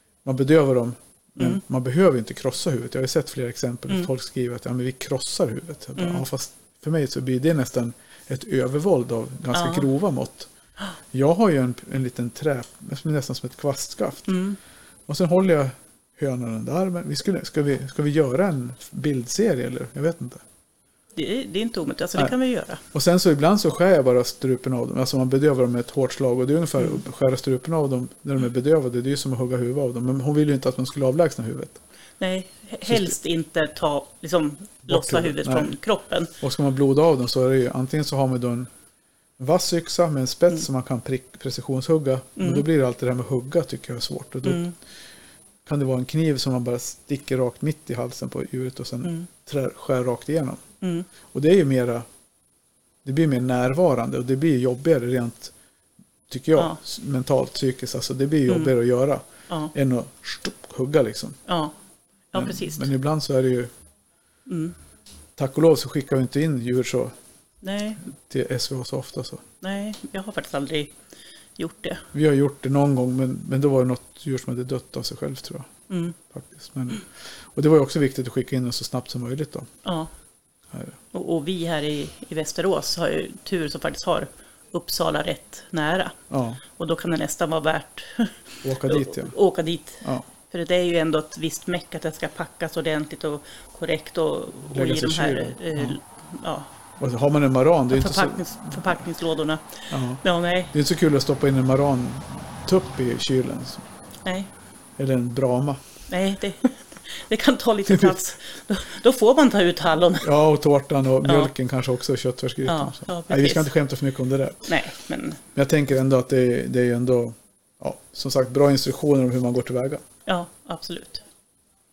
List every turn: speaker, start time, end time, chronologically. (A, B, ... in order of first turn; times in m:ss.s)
0:00.2-0:10.5 A
0:06.0-0:06.2 B
0:09.5-0:09.9 B
0:11.1-0:14.4 A
0:14.3-0:14.6 B
0:15.1-0:20.4 A
0:21.2-0:22.8 B
0:22.9-0:31.8 A
0:32.2-0:36.3 B
0:32.9-0:33.1 A
0:34.9-0:35.8 A
0:36.4-0:38.7 A
0:39.4-0:44.7 A
0:42.4-0:42.6 B
0:44.5-0:44.8 B
0:45.6-0:50.6 A
0:50.8-0:51.1 B
0:51.3-0:52.0 A
0:53.0-0:55.5 A
0:56.3-1:01.4 A
1:01.5-1:01.7 B
1:02.3-1:02.9 B
1:02.3-1:03.7 A
1:04.5-1:04.8 B
1:05.4-1:07.1 A
1:07.6-1:08.0 B
1:08.1-1:09.4 A
1:09.6-1:10.9 B
1:11.6-1:12.1 B
1:12.1-1:15.7 A
1:15.9-1:16.2 B
1:16.3-1:19.7 A
1:19.8-1:20.1 B
1:20.7-1:21.0 A
1:21.1-1:26.2 B
1:26.3-1:26.6 A
1:26.8-1:36.7 B
1:28.6-1:29.4 A
1:34.7-1:36.0 A
1:37.0-1:39.0 A
1:37.9-1:40.7 B
1:39.9-1:43.8 A
1:44.2-1:44.5 B
1:45.0-1:45.8 A
1:46.1-1:50.3 B
1:47.9-1:48.2 A
1:50.2-1:54.8 A
1:51.2-1:51.5 B
1:52.7-1:53.7 B
1:54.7-1:55.4 B
1:55.6-2:00.0 A
2:00.3-2:01.2 B